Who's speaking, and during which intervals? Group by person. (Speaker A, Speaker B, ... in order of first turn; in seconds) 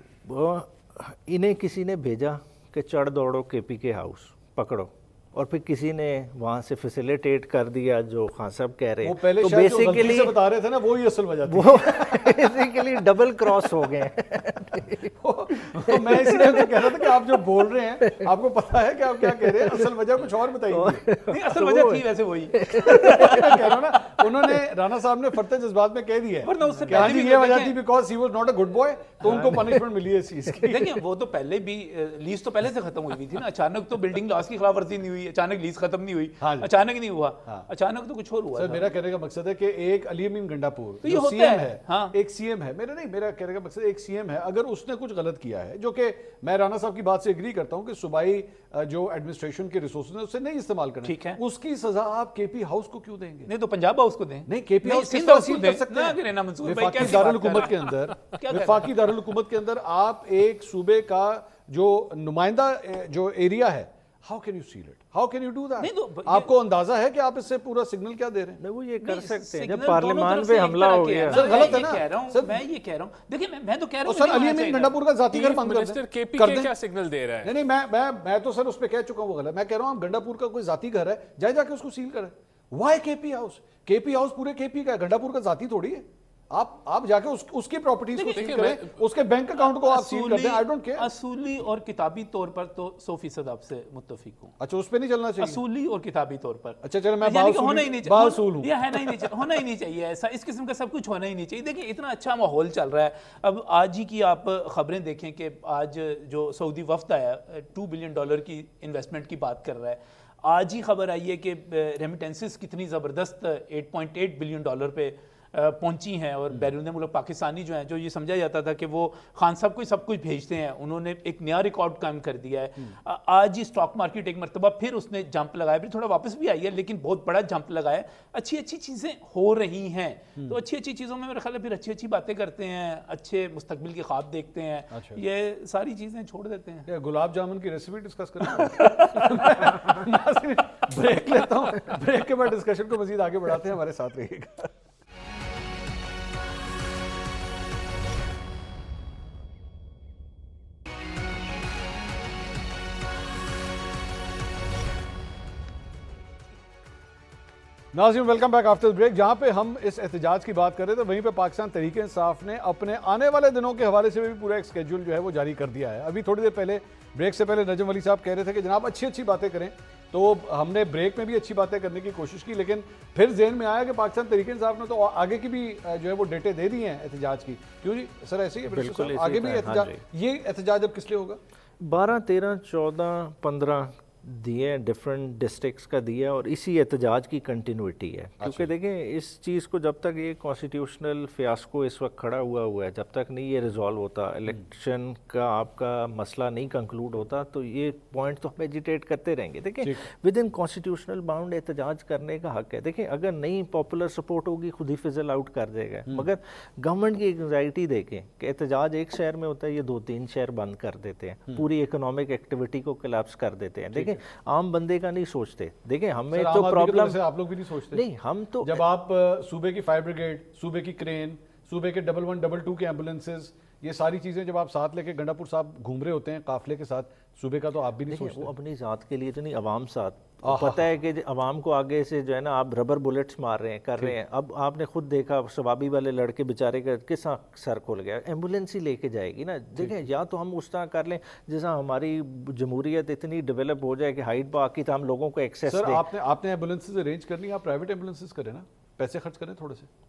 Speaker A: 0.2-10.4, 11.5-17.4, 19.2-19.9, 20.7-24.6, 26.7-27.0, 29.2-29.9, 68.6-71.9, 178.7-180.0, 181.8-217.2, 217.9-218.8, 228.1-246.1
Speaker B: 9.0-12.5, 15.2-21.0, 22.7-31.0, 36.4-36.7, 38.5-53.5, 54.5-68.6, 71.3-72.6, 74.0-76.7, 77.4-91.1, 94.6-95.6, 96.8-99.4, 134.9-135.2, 136.9-144.7, 157.9-181.4, 188.4-188.7, 213.9-214.2, 216.3-218.0, 218.6-228.5, 230.4-230.9, 245.7-249.9
Speaker C: 21.3-23.7, 26.4-27.8, 30.6-39.0, 41.0-42.1, 51.0-51.4, 53.5-59.0, 65.8-66.5, 69.0-75.0, 88.1-88.8, 89.5-94.5, 95.4-136.9, 138.5-140.3
Speaker D: 75.3-77.5, 88.3-88.9